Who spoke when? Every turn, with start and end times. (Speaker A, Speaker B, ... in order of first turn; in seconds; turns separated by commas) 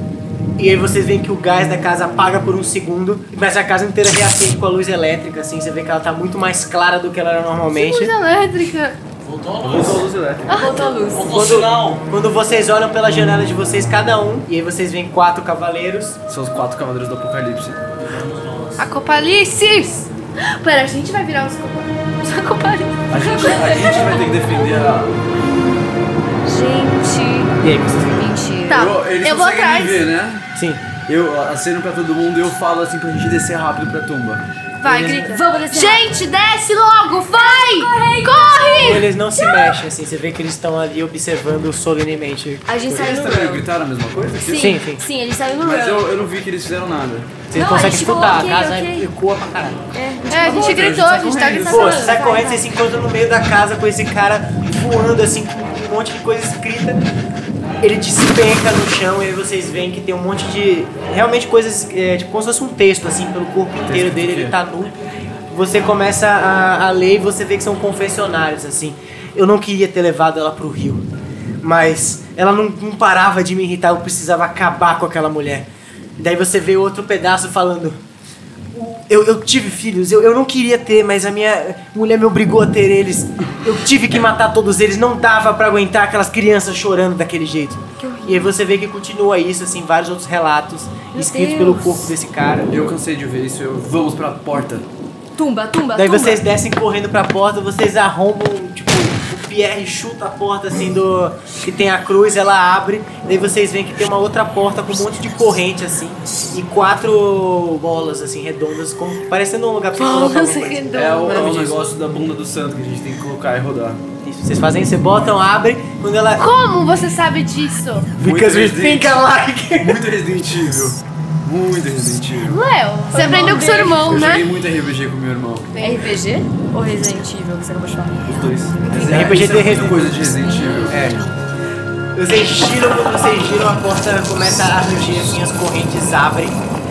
Speaker A: 0.6-8.1, Speaker B: 7.7-9.0, Speaker C: 9.2-10.1, Speaker D: 9.6-10.5, Speaker B: 10.5-10.9, Speaker E: 10.5-11.3, Speaker C: 11.1-12.0, Speaker A: 11.3-16.2, Speaker D: 16.3-17.8, Speaker C: 18.0-18.9, Speaker B: 18.8-23.7, Speaker D: 23.1-25.2, Speaker E: 23.2-24.6, Speaker E: 26.4-28.9, Speaker A: 27.6-28.2, Speaker B: 28.7-30.0, Speaker D: 28.7-30.4, Speaker A: 30.5-30.8, Speaker D: 31.1-35.1, Speaker B: 34.8-39.1, Speaker E: 34.9-36.1, Speaker E: 37.4-39.7, Speaker A: 38.8-42.7, Speaker E: 42.7-43.7, Speaker D: 42.9-44.8, Speaker E: 44.4-46.1, Speaker A: 44.5-45.0, Speaker D: 45.6-47.4, Speaker A: 47.5-49.8, Speaker E: 47.5-49.1, Speaker E: 49.9-52.7, Speaker B: 50.3-52.2, Speaker D: 50.4-51.9, Speaker A: 51.6-57.0, Speaker A: 57.8-65.0, Speaker D: 63.9-64.6, Speaker A: 65.5-71.0, Speaker A: 71.6-78.0, Speaker A: 78.7-92.7, Speaker E: 88.0-88.5, Speaker E: 91.1-92.1, Speaker D: 92.7-94.9, Speaker E: 95.3-96.4, Speaker A: 95.9-111.7, Speaker B: 110.0-111.7, Speaker D: 110.9-114.0, Speaker A: 114.2-116.5, Speaker B: 116.4-118.2, Speaker D: 118.2-122.6, Speaker A: 118.2-120.0, Speaker B: 122.4-124.5, Speaker E: 123.1-124.1, Speaker D: 123.1-125.7, Speaker B: 125.7-126.2, Speaker E: 125.8-128.3, Speaker D: 128.2-131.1, Speaker A: 128.9-130.2, Speaker E: 130.2-131.3, Speaker A: 130.9-131.2, Speaker A: 132.1-136.6